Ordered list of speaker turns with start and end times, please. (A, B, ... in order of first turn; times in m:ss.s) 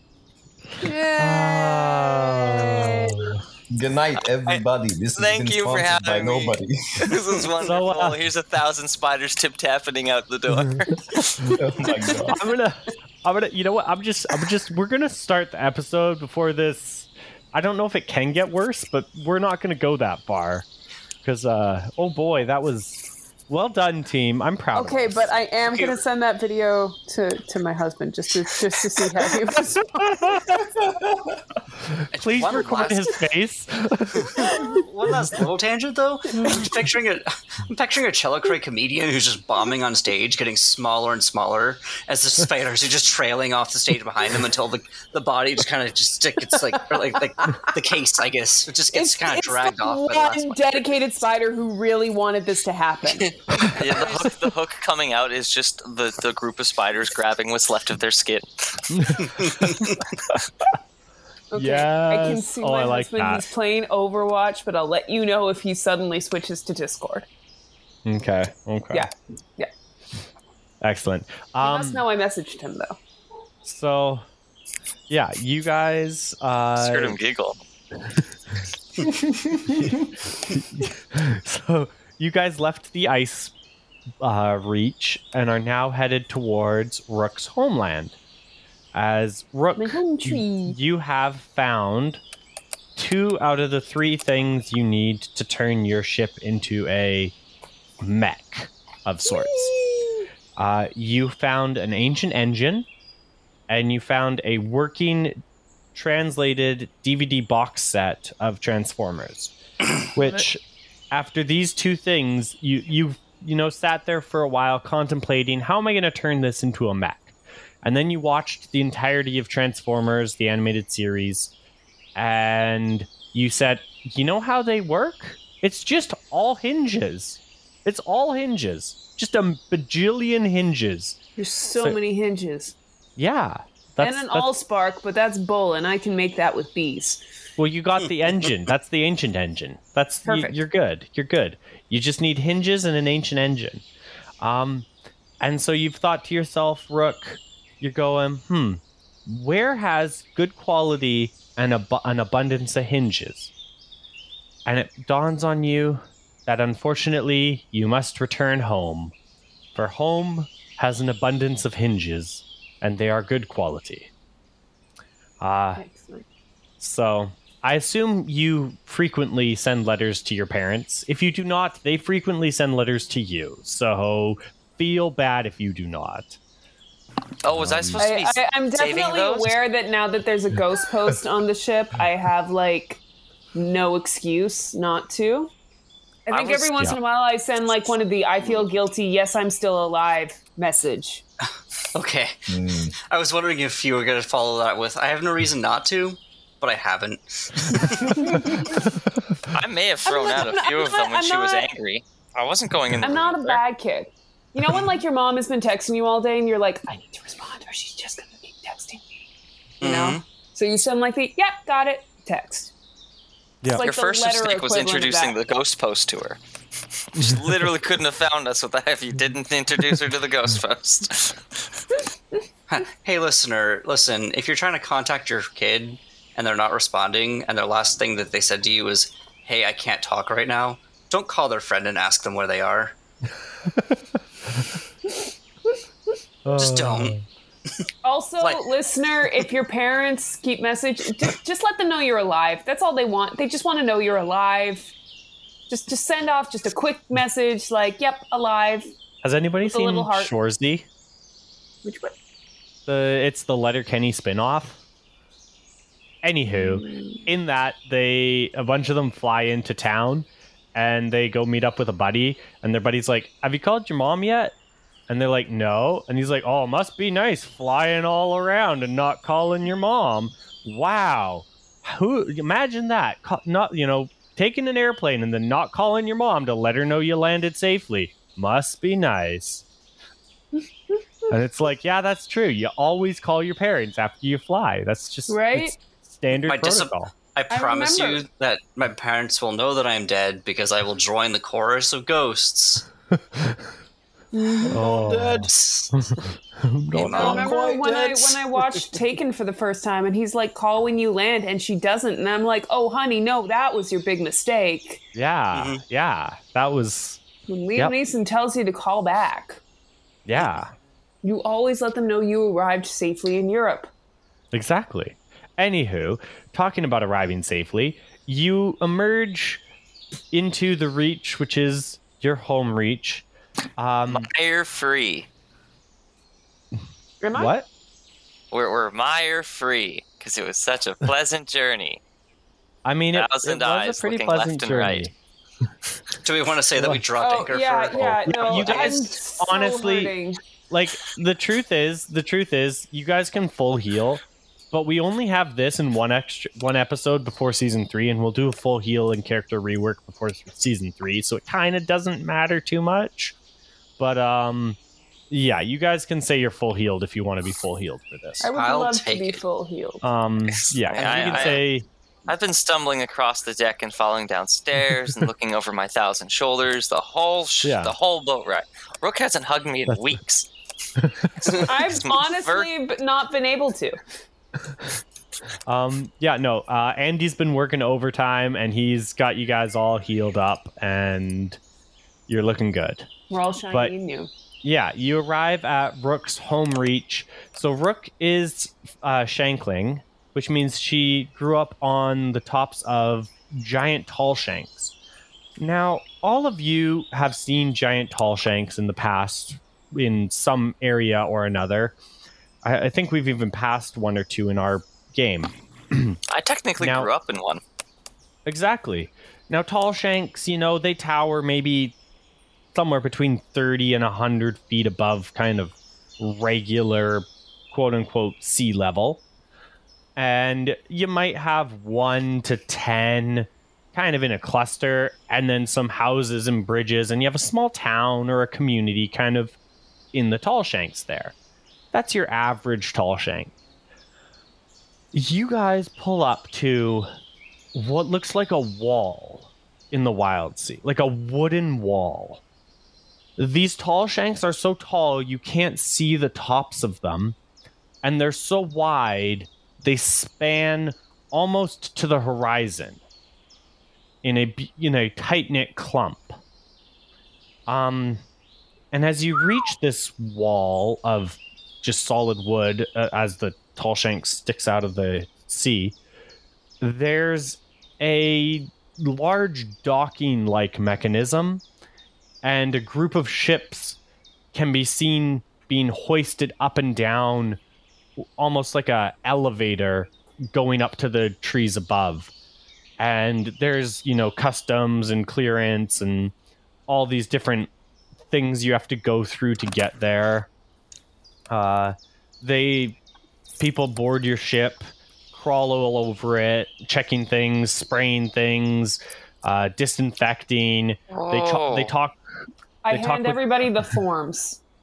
0:00.8-0:03.3 A
0:01.2-0:03.4 B
0:03.7-0:07.1 C
0:05.2-0:11.2 D
0:07.6-0:08.2 B
0:11.5-0:12.4 C
0:12.3-0:20.7 B
0:21.2-0:25.3 B
0:24.7-0:30.7 A
0:25.6-0:26.0 E
0:31.9-0:34.5 B
0:32.1-0:33.1 E
0:34.2-0:50.6 E
0:34.4-0:34.8 A
0:36.4-0:36.6 A
0:48.9-0:54.3 A
0:53.0-0:53.3 E
0:53.7-0:59.8 D
0:58.9-1:00.4 B
0:59.4-0:59.9 E
1:01.5-1:07.3 A
1:01.6-1:03.5 B
1:08.0-1:09.1 B
1:08.9-1:09.7 A
1:10.8-1:12.0 B
1:11.6-1:13.0 A
1:13.6-1:14.2 B
1:15.1-1:17.2 B
1:16.8-1:17.6 D
1:20.5-1:23.5 B
1:24.2-1:28.1 B
1:28.9-1:32.2 B
1:29.8-1:30.8 A
1:33.0-1:37.3 B
1:38.0-1:39.7 B
1:39.3-1:40.3 A
1:40.6-1:42.9 B
1:43.7-1:45.4 B
1:45.9-1:49.5 B
1:50.1-2:01.5 B
2:02.2-2:11.2 B
2:11.4-2:12.7 A
2:13.2-2:14.5 B
2:14.0-2:17.2 A
2:17.6-2:23.8 B
2:20.2-2:20.6 A
2:24.4-2:24.9 B
2:25.4-2:33.5 B
2:34.6-2:39.1 B
2:39.7-2:44.1 B
2:45.4-2:45.8 B
2:45.8-2:46.2 A
2:46.8-2:56.4 B
2:57.4-2:59.6 D
2:57.5-2:58.1 C
2:58.0-3:03.0 A
3:03.5-3:05.5 A
3:06.3-3:11.2 A
3:06.3-3:06.9 D
3:11.9-3:12.5 E
3:12.5-3:12.9 C
3:13.1-3:18.4 E
3:18.0-3:18.7 A
3:19.5-3:23.6 D
3:20.0-3:21.7 A
3:23.0-3:29.2 A
3:29.8-3:30.2 E
3:29.8-3:32.7 A
3:33.7-3:35.4 A
3:33.8-3:36.4 D
3:37.1-3:41.6 D
3:42.7-3:52.9 E
3:53.7-3:54.0 B
3:56.4-3:57.2 B
3:56.5-3:57.1 E
3:58.0-4:04.9 A
3:58.4-3:58.6 E
4:05.7-4:08.9 A
4:09.2-4:10.8 B
4:09.6-4:10.3 A
4:11.8-4:12.1 A
4:12.9-4:14.8 B
4:16.2-4:24.5 B
4:16.5-4:17.3 A
4:25.1-4:39.6 B
4:40.9-4:41.3 A
4:41.3-4:47.1 B
4:45.3-4:45.7 A
4:46.4-4:52.8 E
4:47.5-4:48.2 A
4:54.3-4:54.8 A
4:54.6-4:55.5 C
4:54.7-4:57.4 B
4:55.4-4:55.9 E
4:56.9-4:57.6 E
4:57.1-4:59.0 C
4:57.1-5:05.0 A
5:05.1-5:07.2 B
5:05.5-5:05.8 E
5:07.5-5:09.6 A
5:10.2-5:10.7 B
5:11.2-5:13.9 A
5:14.5-5:19.6 B
5:20.3-5:23.2 B
5:23.8-5:24.3 B
5:24.1-5:25.3 D
5:27.2-5:27.5 A
5:27.3-5:27.6 B
5:28.5-5:32.0 D
5:32.8-5:35.1 B
5:33.1-5:35.1 D
5:36.2-5:39.0 E
5:36.7-5:37.0 B
5:37.2-5:40.4 A
5:38.0-5:40.1 B
5:40.7-5:44.2 B
5:44.7-5:53.3 B
5:54.0-5:54.8 B
5:55.3-5:58.5 B
5:58.4-6:00.0 A
5:58.6-5:59.4 E
5:58.6-5:59.2 D
6:00.0-6:01.8 B
6:00.9-6:01.6 D
6:00.9-6:01.6 E
6:02.3-6:10.5 D
6:07.6-6:07.9 B
6:09.9-6:10.2 B
6:11.0-6:11.4 B
6:11.5-6:12.7 D
6:11.6-6:14.0 A
6:15.7-6:21.6 B
6:22.3-6:23.1 B
6:23.3-6:24.3 A
6:23.7-6:23.9 B
6:24.6-6:34.9 B
6:35.6-6:42.0 B
6:42.6-6:46.2 B
6:46.3-6:47.6 D
6:46.8-6:47.1 B
6:48.4-6:52.0 B
6:52.7-6:59.2 B
7:00.2-7:09.6 B
7:10.1-7:11.3 B
7:11.9-7:13.5 B
7:15.1-7:17.1 B
7:17.7-7:22.4 B
7:23.4-7:27.4 B
7:28.0-7:33.0 B
7:34.2-7:36.4 B
7:37.7-7:38.2 B
7:38.9-7:46.0 B
7:46.8-7:51.6 B
7:52.4-7:54.0 B
7:54.5-7:57.6 B
7:58.2-8:02.3 B
8:03.0-8:06.3 B
8:06.9-8:07.7 B
8:08.3-8:10.5 B
8:11.5-8:13.0 B
8:13.6-8:22.2 B
8:21.1-8:21.9 D
8:22.8-8:24.6 A
8:22.9-8:23.4 B